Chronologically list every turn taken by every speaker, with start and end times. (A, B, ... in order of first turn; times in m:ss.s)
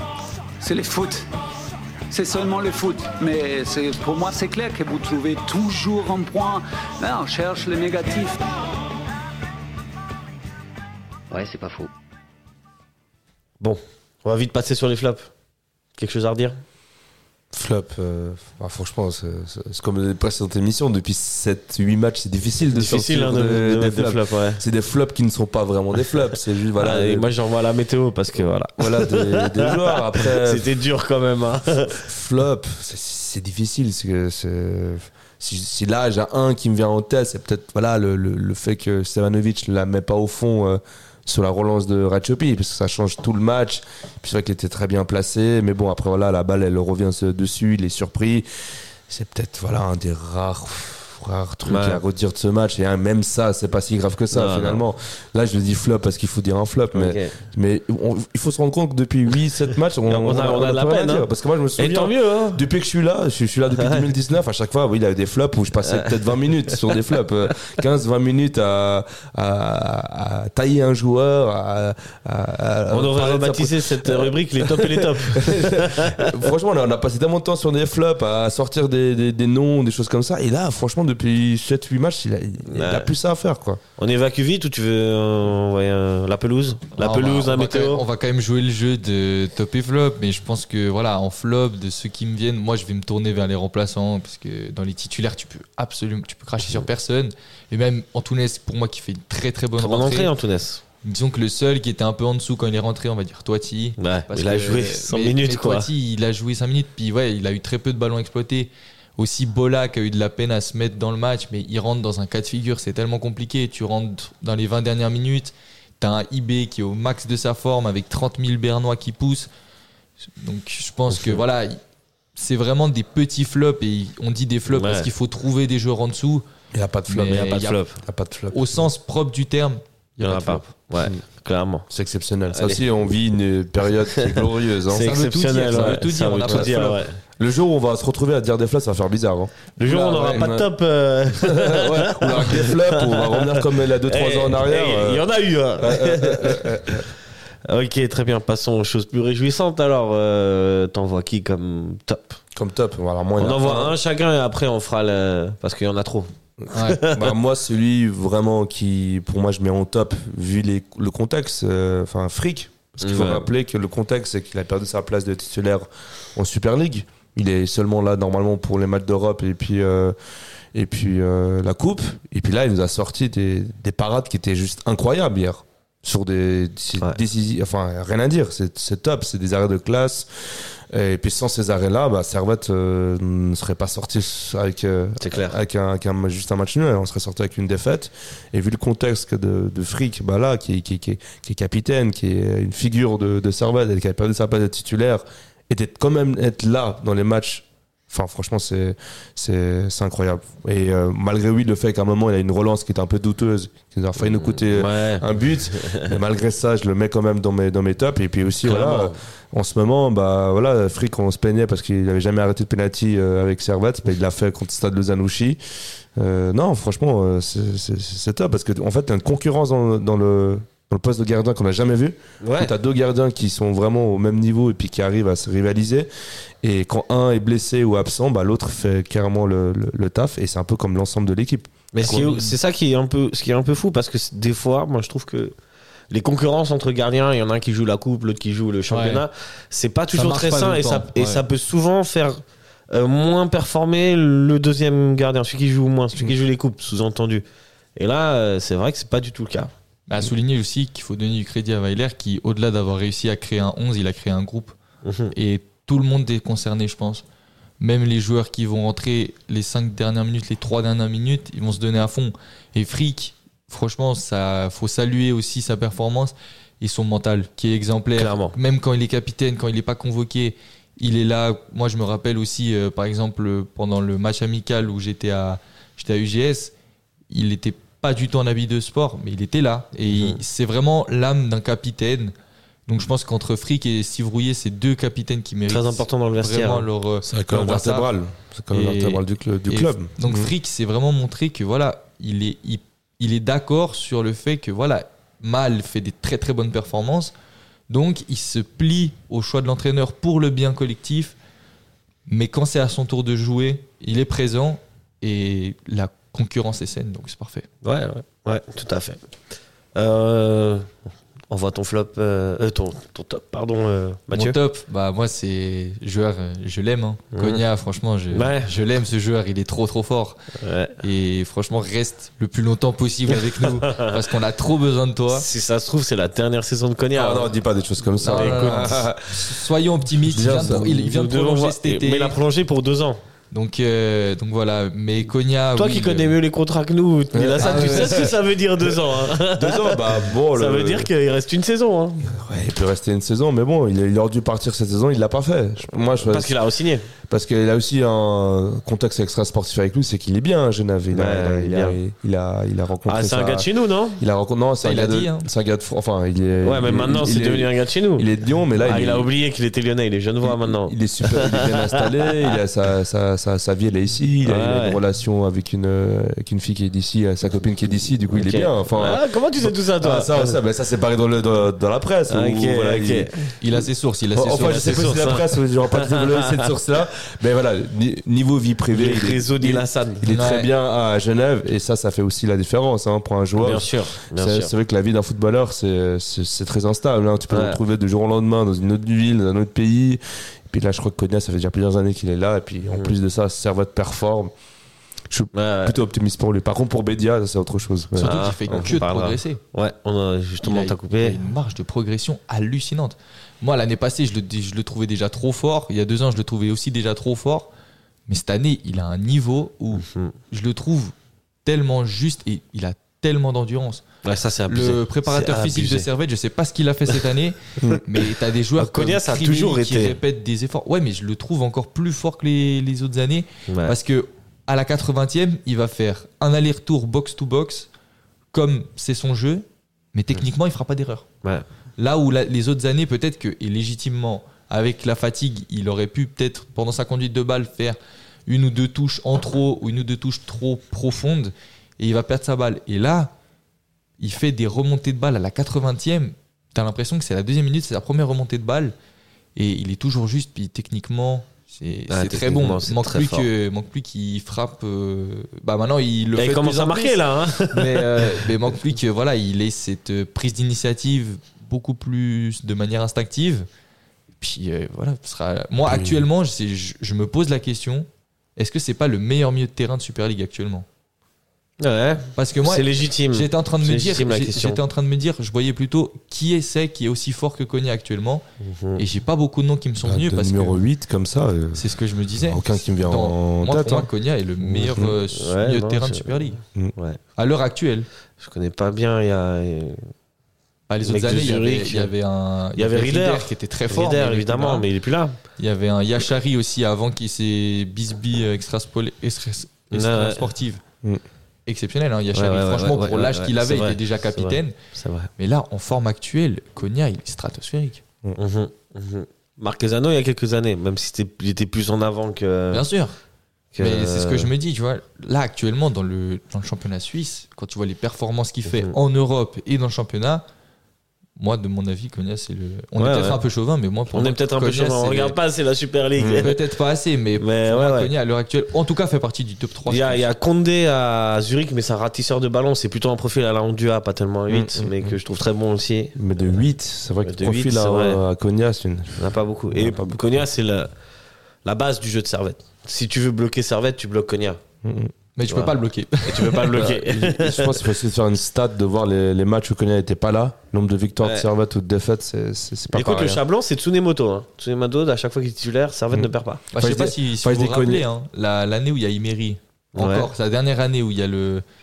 0:00.6-0:01.3 A
0:02.1-0:08.4 A
0:11.3-0:11.9 B
0:13.6-0:15.3 B
0:16.0-0:16.6 B
0:17.5-0:27.3 C
0:22.7-0:24.6 B
0:26.7-0:32.1 B
0:28.8-0:30.7 C
0:31.9-0:48.5 C
0:49.1-1:23.8 C
0:51.6-0:52.0 B
0:54.3-0:54.8 B
0:56.9-0:57.3 B
1:00.1-1:02.6 B
1:03.7-1:04.1 B
1:05.8-1:07.0 B
1:12.9-1:16.5 B
1:22.7-1:23.1 B
1:24.0-1:28.0 B
1:27.0-1:40.3 D
1:39.8-1:40.8 B
1:41.0-1:59.5 D
1:44.0-1:45.9 B
2:00.4-2:01.8 D
2:01.1-2:01.4 B
2:02.3-2:06.4 D
2:04.7-2:05.1 B
2:06.7-2:07.4 C
2:07.1-2:07.8 D
2:07.2-2:08.0 B
2:08.0-2:08.6 C
2:08.5-2:10.7 D
2:10.2-2:11.9 B
2:11.9-2:16.8 C
2:12.5-2:12.8 B
2:14.1-2:17.2 B
2:14.9-2:17.0 D
2:17.4-2:20.7 C
2:19.8-2:27.1 B
2:21.3-2:25.2 C
2:25.8-2:27.1 C
2:27.7-2:32.4 B
2:32.6-2:34.0 C
2:33.4-2:37.4 B
2:36.6-2:50.1 C
2:36.7-2:37.0 D
2:43.0-2:43.5 B
2:50.7-3:00.3 C
3:00.9-3:35.6 C
3:05.2-3:05.6 B
3:24.3-3:26.2 B
3:28.6-3:29.2 B
3:36.2-3:46.1 C
3:42.4-3:42.7 B
3:46.6-3:52.4 C
3:51.9-3:55.5 B
3:52.0-3:52.5 D
3:56.1-4:02.4 B
3:58.9-3:59.2 D
4:00.1-4:01.4 D
4:02.9-4:07.4 B
4:08.0-4:09.7 B
4:10.1-4:14.7 D
4:15.0-4:15.3 B
4:15.3-4:17.2 D
4:17.8-4:36.7 D
4:28.2-4:28.5 B
4:37.3-4:42.3 D
4:40.1-4:40.4 B
4:42.9-4:48.1 D
4:45.7-4:46.9 B
4:47.2-4:50.5 C
4:48.7-4:57.3 D
4:57.9-5:01.4 D
5:02.3-5:07.7 D
5:07.8-5:09.2 B
5:09.9-5:11.0 B
5:11.5-5:14.6 B
5:14.3-5:20.4 D
5:17.3-5:17.6 B
5:18.3-5:18.7 B
5:20.6-5:21.0 B
5:21.0-5:25.4 D
5:23.3-5:24.3 B
5:25.3-5:27.5 B
5:27.1-5:29.6 C
5:28.2-5:32.4 D
5:28.2-5:29.0 B
5:30.3-5:31.1 C
5:30.7-5:33.2 B
5:33.5-5:36.4 D
5:35.7-5:42.3 B
5:37.3-5:41.1 C
5:37.6-5:38.3 D
5:42.2-5:46.5 C
5:46.2-5:47.0 B
5:47.3-5:59.3 C
5:51.1-5:52.0 B
5:53.0-5:54.2 B
5:54.8-5:55.5 D
5:56.6-5:58.3 B
5:58.8-6:02.6 B
6:00.4-6:13.3 C
6:04.4-6:05.0 B
6:08.3-6:10.6 B
6:12.3-6:13.5 B
6:13.6-6:15.2 D
6:14.3-6:34.5 C
6:14.4-6:16.7 B
6:18.9-6:20.3 B
6:20.3-6:20.7 D
6:23.6-6:24.7 B
6:27.5-6:27.8 B
6:35.3-6:38.4 C
6:35.5-6:36.0 B
6:38.2-6:41.4 B
6:38.2-6:39.6 D
6:40.6-6:47.7 D
6:48.3-6:51.1 D
6:50.0-6:50.3 B
6:51.6-6:54.0 D
6:54.2-6:56.1 B
6:54.7-7:07.9 D
6:57.9-7:00.2 B
7:03.7-7:03.9 B
7:08.5-7:11.2 D
7:12.0-7:23.3 D
7:24.2-7:28.9 D
7:29.6-7:43.7 D
7:32.1-7:33.5 B
7:36.3-7:38.5 B
7:44.4-7:50.8 D
7:45.9-7:46.2 C
7:51.8-7:54.8 B
7:52.4-7:58.4 D
7:58.6-7:59.0 B
7:59.0-8:00.8 D
8:00.0-8:01.8 C
8:01.7-8:06.6 D
8:02.4-8:04.1 C
8:04.7-8:05.2 C
8:05.3-8:07.2 B
8:07.4-8:08.1 D
8:08.4-8:10.0 B
8:10.9-8:14.8 D
8:11.0-8:12.1 B
8:12.8-8:15.4 B
8:15.6-8:20.8 D
8:19.9-8:20.4 B
8:21.6-8:24.7 D
8:22.3-8:25.3 B
8:25.4-8:28.0 D
8:28.4-8:32.9 B
8:32.7-8:33.1 D
8:33.7-8:34.5 B
8:33.8-8:40.4 D
8:38.7-8:38.9 B
8:41.4-8:45.4 D
8:43.0-8:43.4 B
8:44.1-8:46.6 B
8:46.2-8:46.5 C
8:46.4-8:50.3 D
8:47.4-8:48.1 B
8:49.9-8:56.6 B
8:54.5-8:55.2 C
8:56.2-9:00.2 C
8:57.2-8:58.2 B
8:59.2-9:00.9 B
9:01.6-9:04.6 B
9:04.8-9:05.1 C
9:05.4-9:06.9 D
9:05.5-9:05.7 B
9:06.2-9:08.0 B
9:06.7-9:13.4 C
9:11.2-9:11.5 B
9:12.9-9:16.6 B
9:16.1-9:18.0 C
9:16.7-9:21.6 D
9:19.9-9:20.3 B